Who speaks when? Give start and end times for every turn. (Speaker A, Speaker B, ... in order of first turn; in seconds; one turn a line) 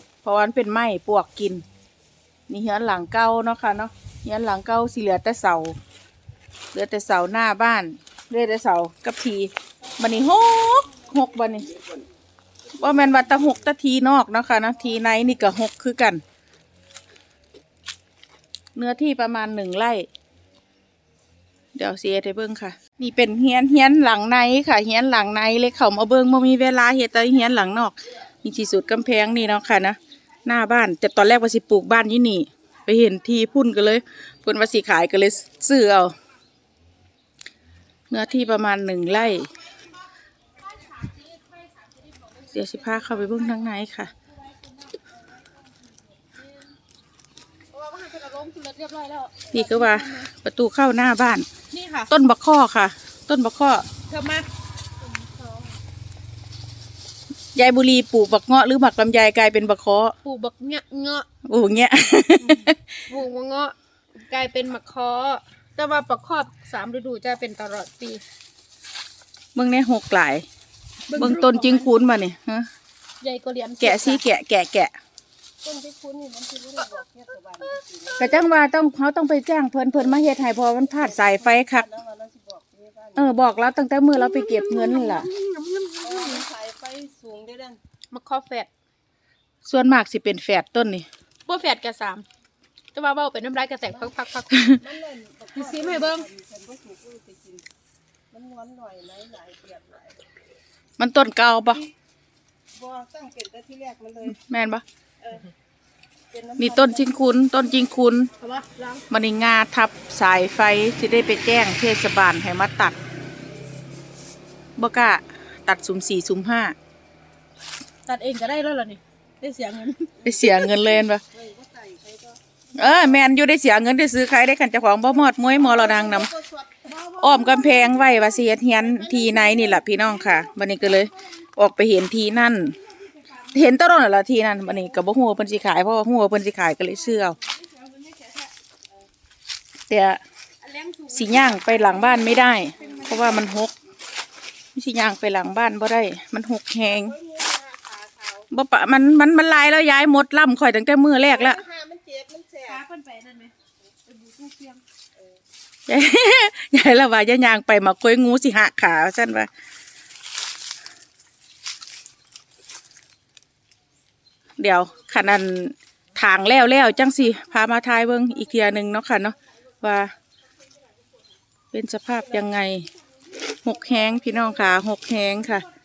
Speaker A: 0.2-1.6
Speaker A: 2.5-5.8
Speaker A: 6.7-11.8
Speaker A: 12.8-16.2
Speaker A: 18.8-20.1
Speaker A: 21.8-36.1
Speaker A: 38.1-39.5
Speaker B: 40.9-42.5
Speaker A: 42.5-44.1
Speaker C: 47.8-48.9
Speaker B: 48.0-50.3
Speaker A: 49.5-51.5
Speaker B: 51.7-52.1
Speaker A: 52.1-53.9
Speaker B: 54.1-54.5
Speaker C: 55.2-55.8
Speaker A: 57.5-60.1
Speaker B: 60.2-61.3
Speaker A: 61.5-62.9
Speaker B: 62.5-68.2
Speaker A: 69.5-70.5
Speaker B: 71.1-71.9
Speaker A: 71.1-72.7
Speaker B: 73.2-74.2
Speaker A: 73.8-74.9
Speaker C: 75.6-78.5
Speaker A: 78.2-81.9
Speaker C: 80.2-83.3
Speaker A: 83.2-85.3
Speaker B: 84.2-86.5
Speaker C: 86.0-87.8
Speaker B: 88.1-88.7
Speaker A: 89.6-91.1
Speaker B: 91.5-92.3
Speaker B: 93.0-94.7
Speaker C: 94.7-97.7
Speaker B: 95.5-96.3
Speaker C: 98.3-100.2
Speaker A: 101.0-101.9
Speaker C: 102.7-104.4
Speaker A: 104.3-104.8
Speaker C: 105.2-105.5
Speaker C: 106.3-107.1
Speaker A: 106.6-108.3
Speaker B: 108.4-109.0
Speaker A: 109.1-113.0
Speaker A: 114.8-116.8
Speaker B: 118.1-120.1
Speaker C: 120.2-122.4
Speaker A: 120.2-121.2
Speaker A: 122.8-126.3
Speaker C: 125.6-127.0
Speaker A: 127.2-132.8
Speaker A: 133.5-137.4
Speaker B: 137.5-138.5
Speaker A: 139.9-140.2
Speaker B: 140.6-143.4
Speaker A: 141.1-143.7
Speaker A: 144.8-147.2
Speaker C: 146.8-148.5
Speaker A: 148.5-151.6
Speaker C: 151.2-152.8
Speaker B: 152.7-153.5
Speaker B: 154.1-154.8
Speaker A: 155.9-159.5
Speaker A: 164.6-170.1
Speaker A: 171.7-172.9
Speaker A: 173.6-175.7